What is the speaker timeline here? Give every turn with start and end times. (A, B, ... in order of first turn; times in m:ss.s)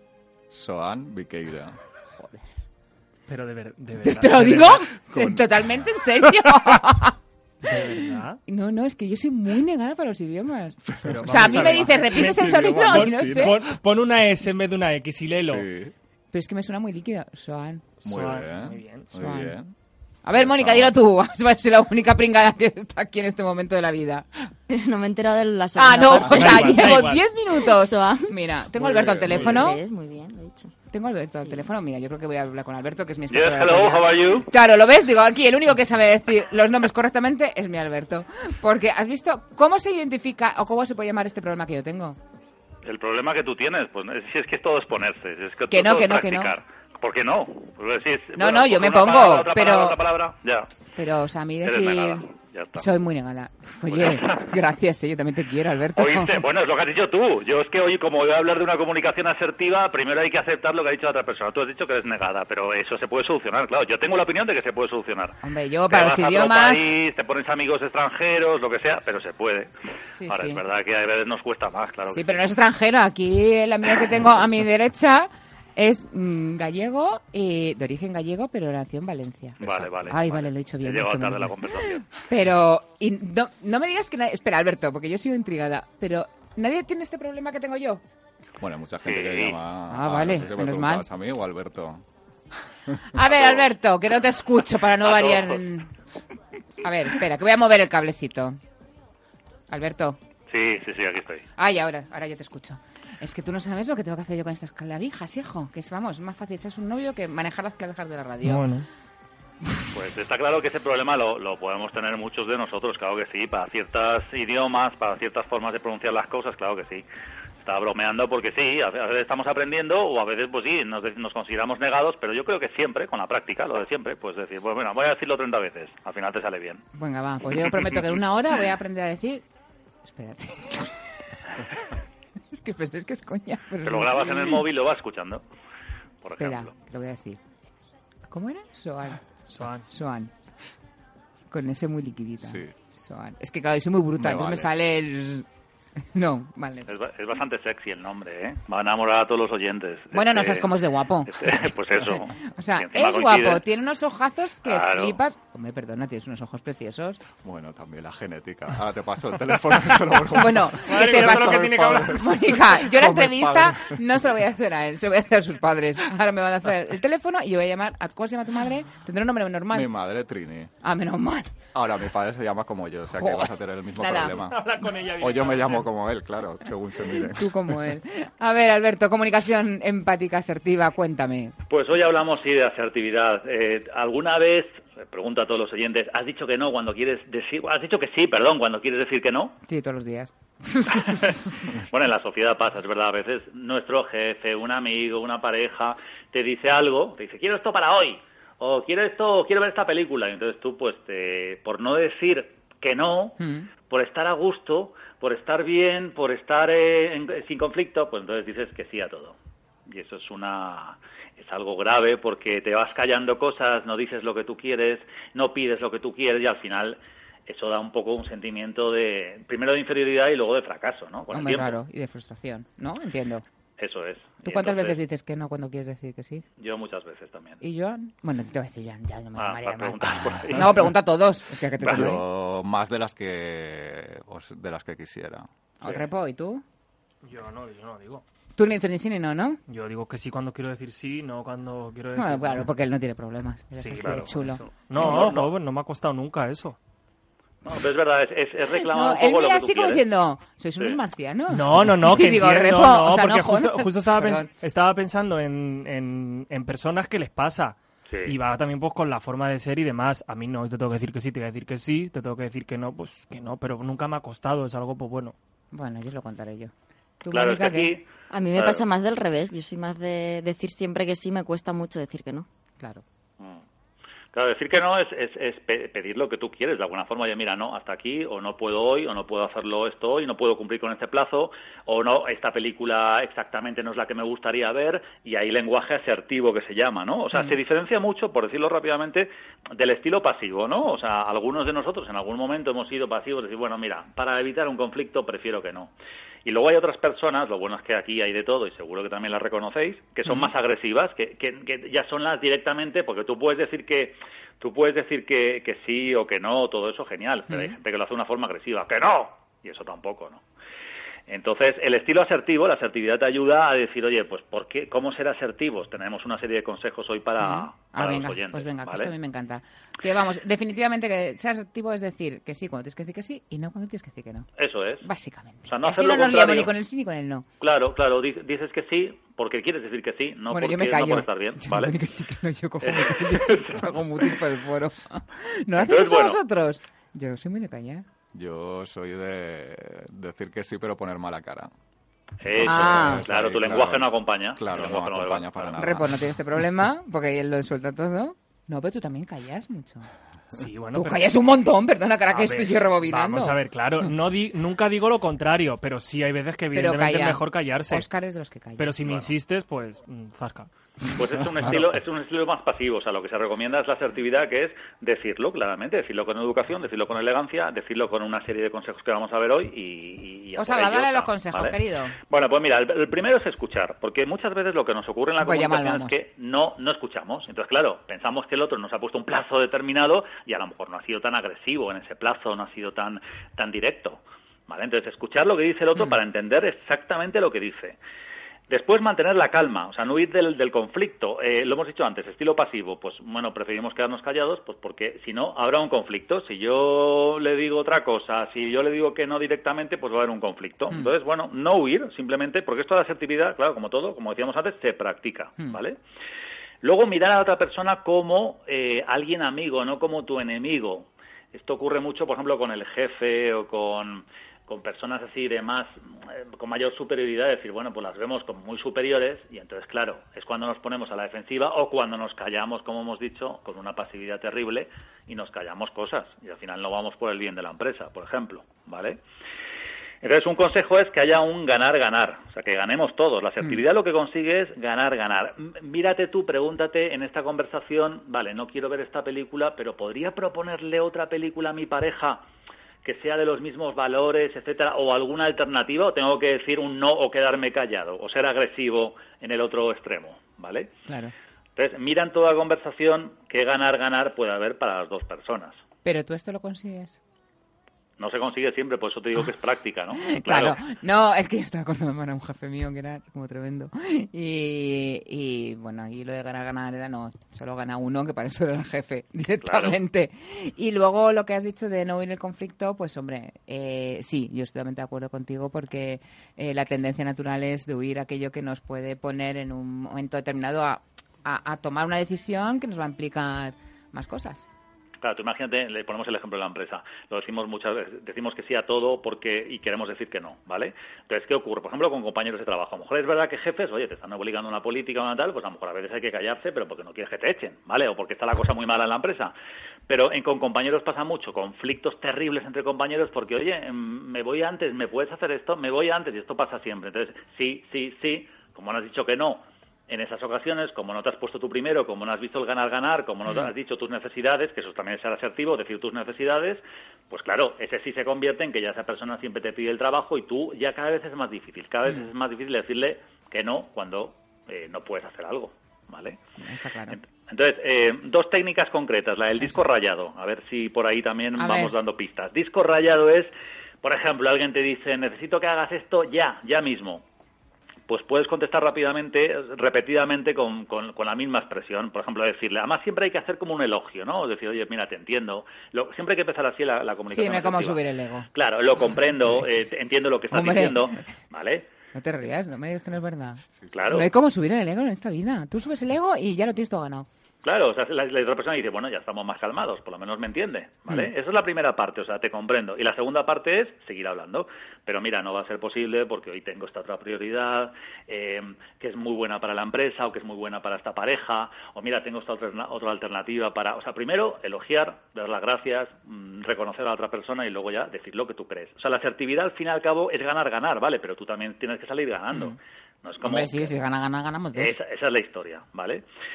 0:00.5-0:01.8 A
0:03.3-0:04.8 B
0:04.0-0:07.2 C
0:05.1-0:05.8 A
0:07.6-0:08.4 B
0:08.4-0:13.6 C
0:10.9-0:13.7 A
0:11.0-0:15.6 B
0:15.4-0:15.9 A
0:16.3-0:17.8 C
0:18.0-0:19.1 B
0:18.0-0:19.7 A
0:19.2-0:19.6 C
0:20.2-0:24.3 C
0:20.3-0:20.9 A
0:24.7-0:26.9 D
0:25.8-0:29.8 C
0:26.3-0:27.2 B
0:27.6-0:28.4 D
0:28.8-0:29.5 A
0:29.3-0:30.7 D
0:30.9-0:42.2 C
0:33.3-0:34.5 E
0:42.8-0:50.7 E
0:45.7-0:46.5 C
0:48.4-0:50.0 C
0:51.0-0:52.2 C
0:51.6-0:52.8 E
0:52.8-0:56.4 C
0:53.9-0:54.5 E
0:56.0-1:05.4 E
1:05.4-1:06.8 C
1:05.9-1:09.7 E
1:10.2-1:10.6 C
1:10.3-1:12.5 E
1:12.1-1:28.0 C
1:19.6-1:22.0 E
1:19.6-1:19.9 A
1:28.6-1:32.0 A
1:29.0-1:29.6 E
1:29.9-1:31.0 C
1:33.1-1:35.9 C
1:35.0-1:35.6 E
1:36.8-1:38.6 C
1:39.7-1:40.2 C
1:40.5-1:41.4 E
1:41.6-1:48.6 C
1:48.4-1:48.8 B
1:49.9-1:57.0 E
1:57.6-2:06.8 E
2:06.9-2:09.4 C
2:10.0-2:11.0 C
2:12.5-2:14.5 C
2:13.8-2:15.4 E
2:16.2-2:16.7 E
2:16.4-2:17.4 C
2:18.3-2:19.2 C
2:19.5-2:19.9 B
2:19.9-2:20.3 C
2:21.5-2:25.4 C
2:22.4-2:22.7 A
2:24.2-2:24.7 A
2:26.1-2:26.9 C
2:26.9-2:30.7 E
2:30.1-2:31.7 C
2:31.3-2:33.6 E
2:32.4-2:37.2 C
2:34.6-2:35.2 E
2:37.4-2:44.0 A
2:40.3-2:49.9 C
2:40.8-2:42.2 B
2:49.7-2:50.7 A
2:50.8-2:51.5 C
2:51.7-2:57.9 A
2:53.2-2:54.4 C
2:54.2-2:55.9 B
2:57.2-3:01.5 C
3:01.7-3:09.6 E
3:09.7-3:11.3 C
3:10.9-3:29.3 E
3:23.4-3:23.7 C
3:29.9-3:41.8 E
3:41.3-3:43.4 C
3:43.8-3:45.0 E
3:44.4-3:46.4 C
3:46.6-3:47.6 E
3:47.6-3:52.2 C
3:49.4-3:50.9 E
3:51.8-3:55.5 A
3:55.8-3:56.6 C
3:57.2-3:58.2 B
3:58.6-3:59.6 C
3:59.7-4:02.7 B
4:02.1-4:05.2 C
4:03.7-4:06.8 B
4:05.0-4:05.5 E
4:07.6-4:10.0 E
4:08.8-4:14.5 C
4:11.5-4:25.3 B
4:18.1-4:18.3 E
4:25.7-4:27.9 C
4:27.3-4:28.8 E
4:28.3-4:32.5 D
4:32.8-4:33.0 C
4:34.3-4:55.9 E
4:56.4-5:10.4 E
5:00.2-5:00.5 C
5:07.5-5:07.7 C
5:11.3-5:19.1 E
5:17.4-5:24.5 C
5:24.6-5:25.1 E
5:25.0-5:27.4 C
5:25.6-5:26.7 E
5:27.6-5:32.0 E
5:30.5-5:38.0 C
5:32.8-5:34.3 E
5:35.8-5:36.4 E
5:38.3-5:41.7 A
5:42.4-5:45.8 E
5:42.4-5:46.3 A
5:42.6-5:43.2 C
5:45.8-5:50.1 C
5:50.5-5:51.3 B
5:50.9-5:53.6 C
5:52.3-5:58.1 B
5:56.7-5:59.0 C
5:58.8-6:00.7 B
5:59.0-5:59.3 E
6:01.1-6:11.8 E
6:10.6-6:12.1 C
6:12.3-6:28.0 E
6:15.4-6:16.1 C
6:28.7-6:46.0 E
6:46.8-7:09.2 E
7:10.2-7:22.4 E
7:23.0-7:30.9 E
7:31.1-7:31.3 C
7:31.8-7:35.8 E
7:36.0-7:37.2 C
7:38.2-7:40.8 E
7:40.2-8:04.7 C
7:49.6-7:50.0 E
8:05.2-8:19.5 E
8:20.1-8:46.4 E
8:46.6-8:47.2 C
8:47.1-8:53.5 E
8:51.6-8:51.9 C
8:54.0-8:57.2 E
8:58.1-9:08.0 E
9:07.3-9:08.5 C
9:08.5-9:11.8 E
9:10.5-9:11.2 C
9:12.1-9:17.3 C
9:13.9-9:14.3 E
9:17.6-9:43.9 E
9:43.4-9:44.9 C
9:44.8-9:46.2 E